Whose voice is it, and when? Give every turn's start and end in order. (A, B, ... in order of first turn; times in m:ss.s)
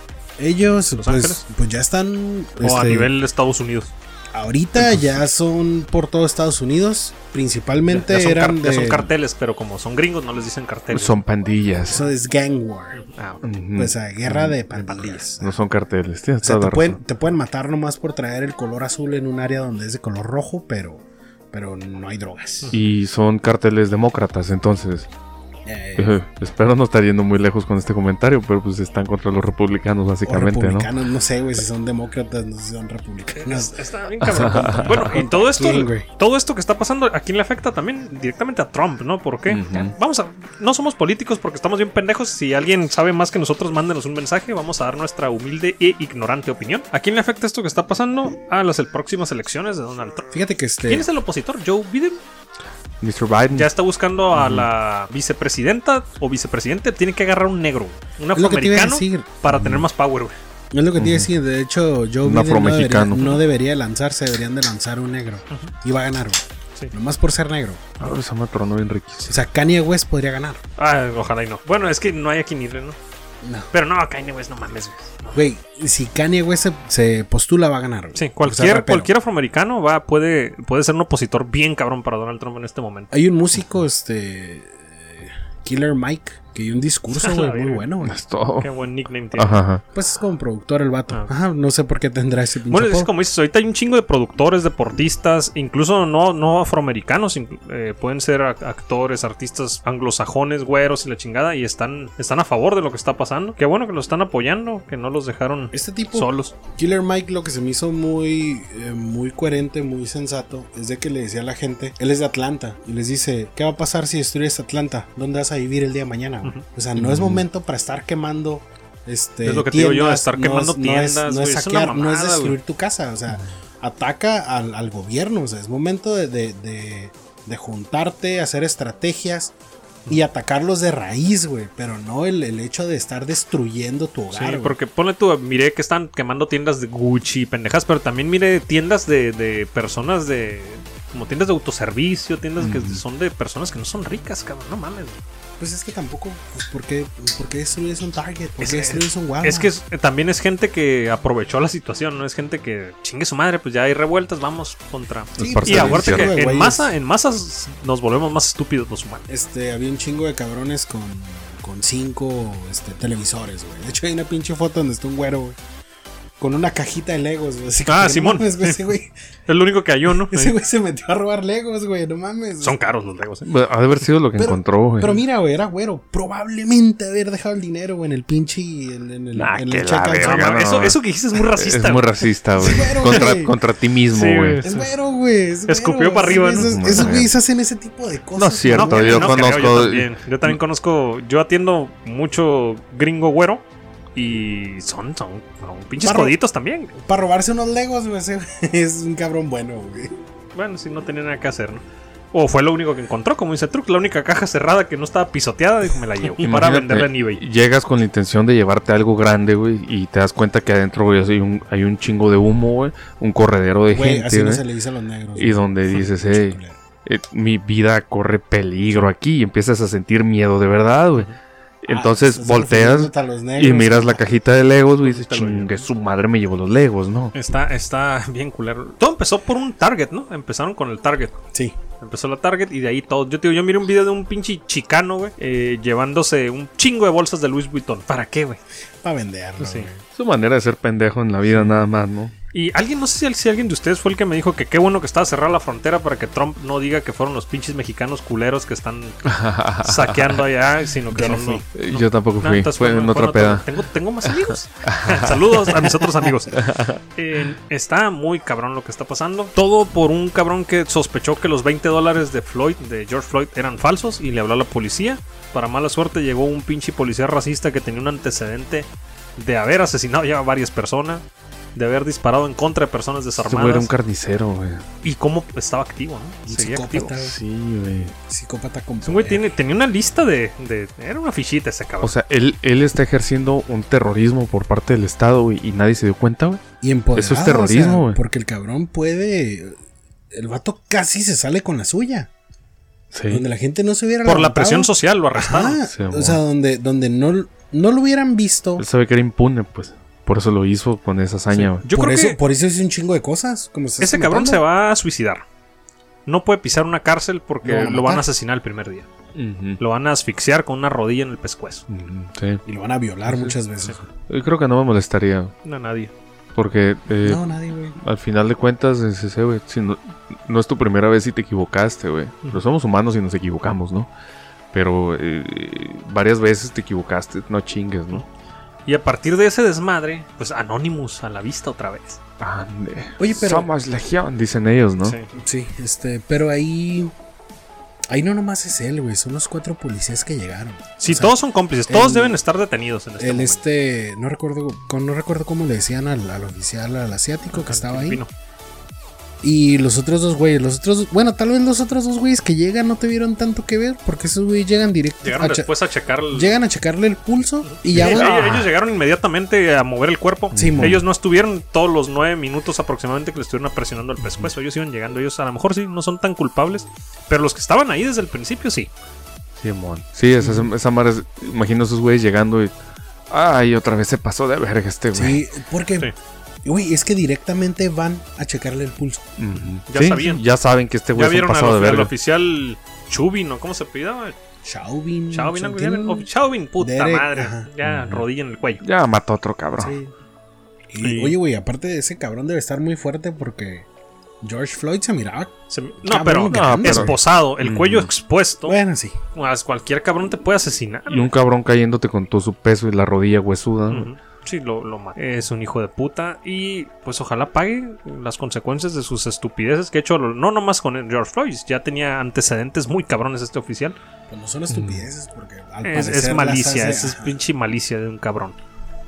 0:00.4-0:03.1 A
0:01.0-0:01.4 B
0:02.6-0:03.9 B
0:04.3-0:09.1 A
0:04.8-0:05.2 C
0:07.9-0:11.2 B
0:10.9-0:12.0 C
0:11.8-0:13.0 A
0:12.9-0:13.4 B
0:13.4-0:14.6 C
0:13.8-0:15.6 A
0:14.7-0:15.2 B
0:15.4-0:17.0 C
0:16.4-0:22.7 A
0:22.7-0:25.1 C
0:25.6-0:26.2 A
0:26.0-0:30.9 C
0:30.2-0:36.1 A
0:33.3-0:52.2 B
0:34.2-0:35.1 C
0:39.5-0:39.9 C
0:50.3-0:51.1 A
0:53.0-0:53.7 C
0:53.5-1:00.3 B
0:54.3-0:54.7 C
0:58.3-0:59.4 A
0:59.5-0:59.8 C
1:00.7-1:07.8 A
1:01.0-1:01.3 C
1:02.2-1:03.4 C
1:08.0-1:09.4 C
1:09.3-1:10.6 A
1:10.8-1:13.0 B
1:13.4-1:13.7 A
1:13.7-1:15.4 B
1:15.3-1:19.1 A
1:18.1-1:23.1 B
1:23.1-1:28.2 A
1:27.1-1:27.8 B
1:28.0-1:28.7 C
1:28.6-1:29.6 B
1:29.3-1:29.8 C
1:29.9-1:33.1 A
1:32.7-1:46.5 B
1:45.7-2:09.5 A
1:57.0-1:57.4 C
1:59.4-2:02.6 B
2:10.1-2:14.8 A
2:14.3-2:25.2 B
2:22.6-2:23.0 C
2:25.6-2:29.7 A
2:28.6-2:39.3 B
2:35.4-2:36.3 C
2:35.4-2:36.9 A
2:39.3-2:45.6 A
2:46.4-2:49.1 A
2:47.8-2:48.9 B
2:49.5-2:50.5 B
2:50.2-2:52.8 A
2:52.6-2:53.5 B
2:53.4-2:55.2 C
2:54.4-3:00.5 A
2:59.4-3:01.0 C
3:00.2-3:02.1 B
3:01.5-3:04.6 C
3:02.6-3:03.5 A
3:04.1-3:04.9 B
3:04.6-3:09.6 A
3:05.7-3:07.2 B
3:06.6-3:07.3 C
3:08.4-3:10.6 C
3:08.7-3:13.6 B
3:14.2-3:16.9 B
3:16.0-3:16.4 A
3:16.9-3:20.2 A
3:20.5-3:27.4 B
3:26.4-3:34.6 C
3:33.9-3:36.8 A
3:35.4-3:41.3 C
3:41.8-3:47.3 C
3:41.9-3:44.3 A
3:45.0-3:45.8 B
3:47.3-3:51.4 B
3:52.0-3:58.6 B
3:59.0-4:00.0 A
3:59.6-3:59.9 B
4:00.1-4:02.3 C
4:02.5-4:09.2 B
4:09.2-4:10.4 C
4:09.8-4:16.6 B
4:11.1-4:11.6 A
4:11.7-4:13.8 C
4:14.8-4:15.4 C
4:16.5-4:17.0 C
4:17.2-4:31.2 B
4:31.8-4:33.9 B
4:33.4-4:34.8 C
4:35.0-4:37.1 B
4:36.4-4:37.4 A
4:37.2-4:38.1 C
4:38.3-4:39.4 A
4:39.0-4:42.1 B
4:42.0-4:46.6 C
4:46.8-4:49.8 A
4:47.1-4:48.2 C
4:50.3-4:52.3 A
4:53.1-4:53.4 C
4:53.3-4:58.8 A
4:54.2-4:55.8 B
4:55.9-4:56.4 C
4:58.8-5:01.8 C
5:01.5-5:04.6 A
5:01.7-5:02.4 B
5:04.0-5:05.4 B
5:06.2-5:09.1 B
5:07.6-5:08.3 A
5:09.3-5:09.8 C
5:09.8-5:11.8 B
5:11.9-5:12.6 C
5:12.6-5:14.1 A
5:13.3-5:13.5 C
5:14.3-5:15.5 C
5:15.6-5:16.1 B
5:16.5-5:17.4 C
5:17.2-5:18.0 A
5:18.0-5:24.1 C
5:24.7-5:28.2 C
5:28.8-5:32.2 B
5:32.4-5:35.2 C
5:33.2-5:33.7 A
5:35.0-5:35.3 B
5:35.3-5:37.1 A
5:38.1-5:41.4 A
5:41.0-5:43.6 B
5:41.9-5:42.4 A
5:43.2-5:48.2 A
5:47.5-5:48.3 B
5:49.4-5:55.7 A
5:55.2-5:56.6 B
5:56.3-5:58.6 A
5:57.6-6:08.9 B
5:57.9-5:58.6 C
6:00.5-6:01.0 C
6:00.5-6:01.0 A
6:09.6-6:12.7 C
6:13.3-6:15.4 C
6:15.1-6:16.1 A
6:16.6-6:19.3 A
6:19.4-6:22.1 C
6:19.9-6:20.4 B
6:21.1-6:24.4 B
6:24.6-6:26.3 A
6:25.3-6:28.8 B
6:26.8-6:27.7 A
6:27.8-6:28.2 C
6:28.8-6:30.0 C
6:29.8-6:30.1 A
6:30.9-6:33.9 A
6:31.0-6:31.4 B
6:34.4-6:37.1 A
6:35.7-6:38.8 B
6:36.5-6:38.1 C
6:38.6-6:39.2 A
6:39.3-6:41.3 B
6:41.1-6:44.1 C
6:43.9-6:54.0 B
6:54.3-6:57.4 A
6:54.7-6:55.0 C
6:55.8-6:58.6 B